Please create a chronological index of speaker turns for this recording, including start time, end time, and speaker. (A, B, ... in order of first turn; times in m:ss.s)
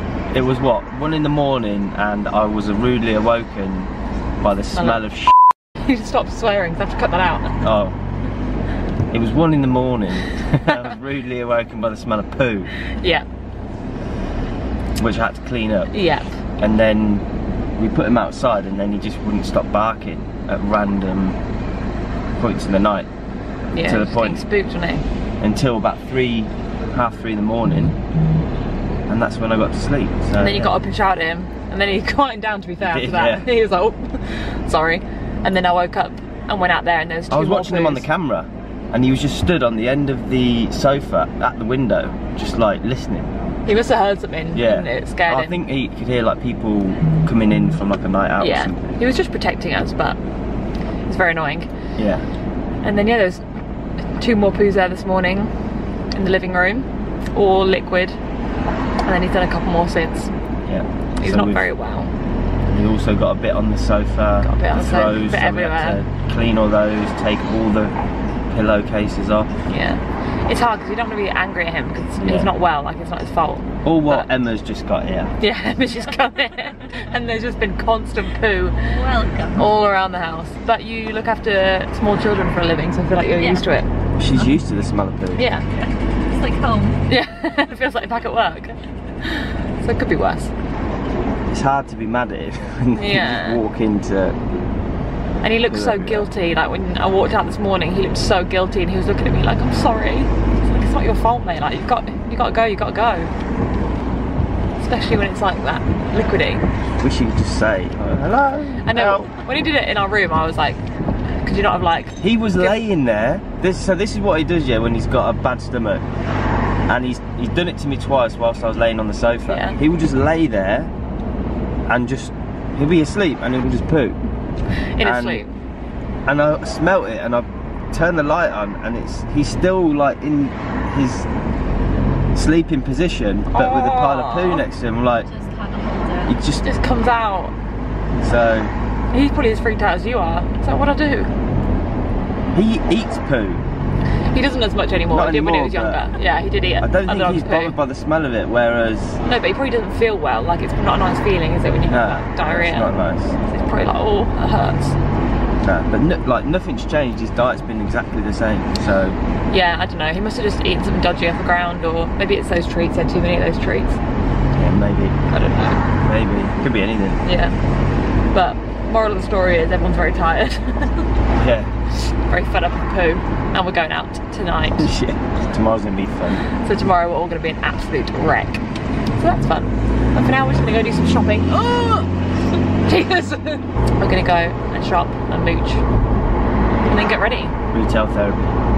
0:00.3-0:05.2 A
0:04.7-0:07.6 B
0:07.6-0:08.0 A
0:09.1-0:12.7 A
0:13.0-0:13.2 B
0:15.0-0:15.9 A
0:15.9-0:16.4 B
0:16.6-0:17.2 A
0:17.8-0:21.4 A
0:22.4-0:23.1 A
0:23.7-0:25.0 B
0:23.8-0:24.4 A
0:25.4-0:27.9 A
0:29.1-0:30.7 A
0:30.4-0:38.1 B
0:32.8-0:33.4 A
0:37.3-0:43.3 A
0:43.6-0:45.6 B
0:44.5-0:48.8 A
0:48.4-0:50.2 B
0:51.0-0:51.7 B
0:52.0-0:52.3 A
0:52.8-0:53.4 B
0:54.2-0:55.6 B
0:56.1-0:58.2 B
0:59.0-1:00.3 B
1:00.7-1:01.7 A
1:01.2-1:02.1 B
1:02.7-1:08.0 A
1:04.4-1:06.0 B
1:08.5-1:09.5 A
1:09.7-1:14.3 B
1:12.2-1:12.5 A
1:13.8-1:15.4 A
1:15.4-1:18.8 B
1:18.8-1:19.6 C
1:19.6-1:23.9 B
1:23.4-1:23.7 C
1:24.2-1:25.4 A
1:25.4-1:25.7 B
1:26.3-1:27.0 C
1:27.1-1:30.5 B
1:31.5-1:34.4 A
1:33.0-1:33.6 B
1:35.4-1:43.3 B
1:35.6-1:36.3 A
1:44.8-1:46.7 B
1:47.0-1:49.3 A
1:48.8-1:50.8 B
1:51.4-1:52.8 B
1:52.2-1:56.0 A
1:56.9-2:00.9 A
1:59.5-1:59.8 B
2:01.9-2:04.2 A
2:05.0-2:05.5 B
2:05.0-2:05.4 A
2:06.3-2:11.3 A
2:12.3-2:15.3 A
2:13.5-2:14.7 B
2:15.2-2:16.4 C
2:16.3-2:16.7 A
2:16.6-2:17.5 B
2:18.2-2:18.7 A
2:19.1-2:21.3 B
2:22.5-2:23.6 A
2:24.3-2:27.8 B
2:25.1-2:26.0 A
2:26.8-2:29.2 A
2:29.2-2:35.0 B
2:31.9-2:33.4 A
2:35.6-2:39.2 A
2:39.5-2:44.0 B
2:44.6-2:45.2 A
2:45.3-2:45.8 B
2:46.0-2:47.2 A
2:47.2-2:47.6 B
2:48.3-2:51.1 B
2:51.4-2:51.7 A
2:51.9-2:54.9 B
2:54.8-2:56.4 A
2:56.4-2:58.6 B
2:59.2-3:02.1 B
3:02.8-3:05.8 B
3:06.8-3:07.6 B
3:07.7-3:08.5 A